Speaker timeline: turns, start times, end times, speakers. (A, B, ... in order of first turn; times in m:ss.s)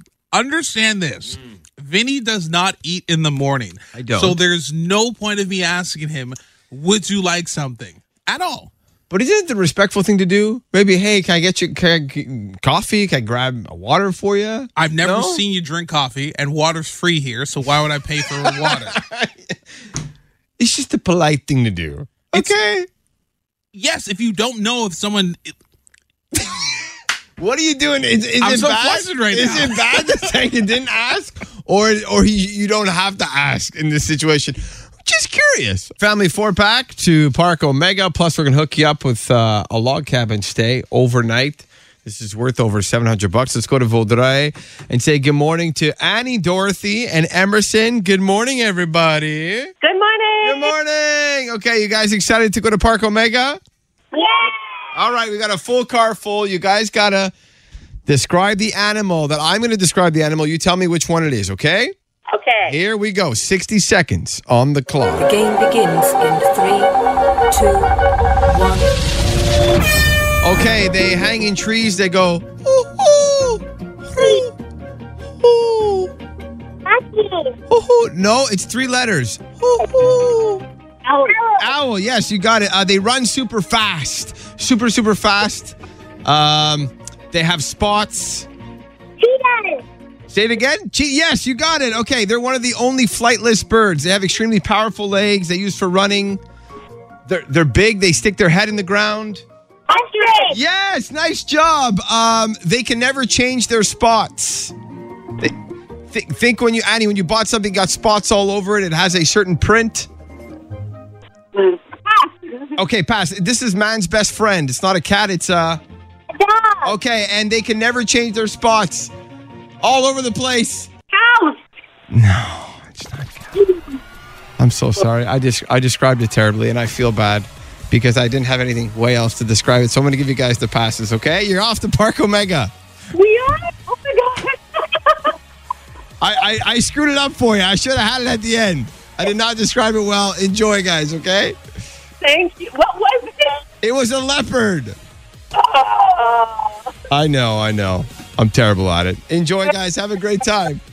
0:00.3-0:08.7 A
0:03.9-0:04.4 B
0:09.1-0:15.4 B
0:14.8-0:19.0 A
0:18.4-0:19.5 B
0:20.6-0:22.9 B
0:23.7-0:25.5 A
0:26.3-0:26.6 B
0:27.4-0:49.7 B
0:28.4-0:30.3 A
0:49.8-0:50.7 C
0:50.4-0:53.6 B
0:54.1-0:54.5 C
0:54.9-0:57.3 B
0:58.1-1:01.9 B
1:02.6-1:05.3 B
1:05.2-1:06.9 D
1:07.5-1:08.0 D
1:08.5-1:08.9 D
1:10.4-1:14.5 B
1:15.4-1:16.1 B
1:17.7-1:20.6 B
1:21.6-1:28.5 B
1:30.3-1:36.4 B
1:37.3-1:39.4 B
1:40.5-1:44.7 B
1:46.1-1:50.1 B
1:51.6-1:52.5 C
1:52.8-1:55.8 B
1:56.4-1:56.9 C
1:56.8-1:59.1 B
1:59.8-2:00.9 B
2:01.1-2:01.6 C
2:02.1-2:03.5 B
2:03.6-2:03.8 C
2:04.6-2:12.7 B
2:13.1-2:15.3 C
2:16.2-2:21.6 B
2:22.2-2:23.6 C
2:23.8-2:25.0 B
2:25.5-2:26.8 C
2:27.1-2:30.8 B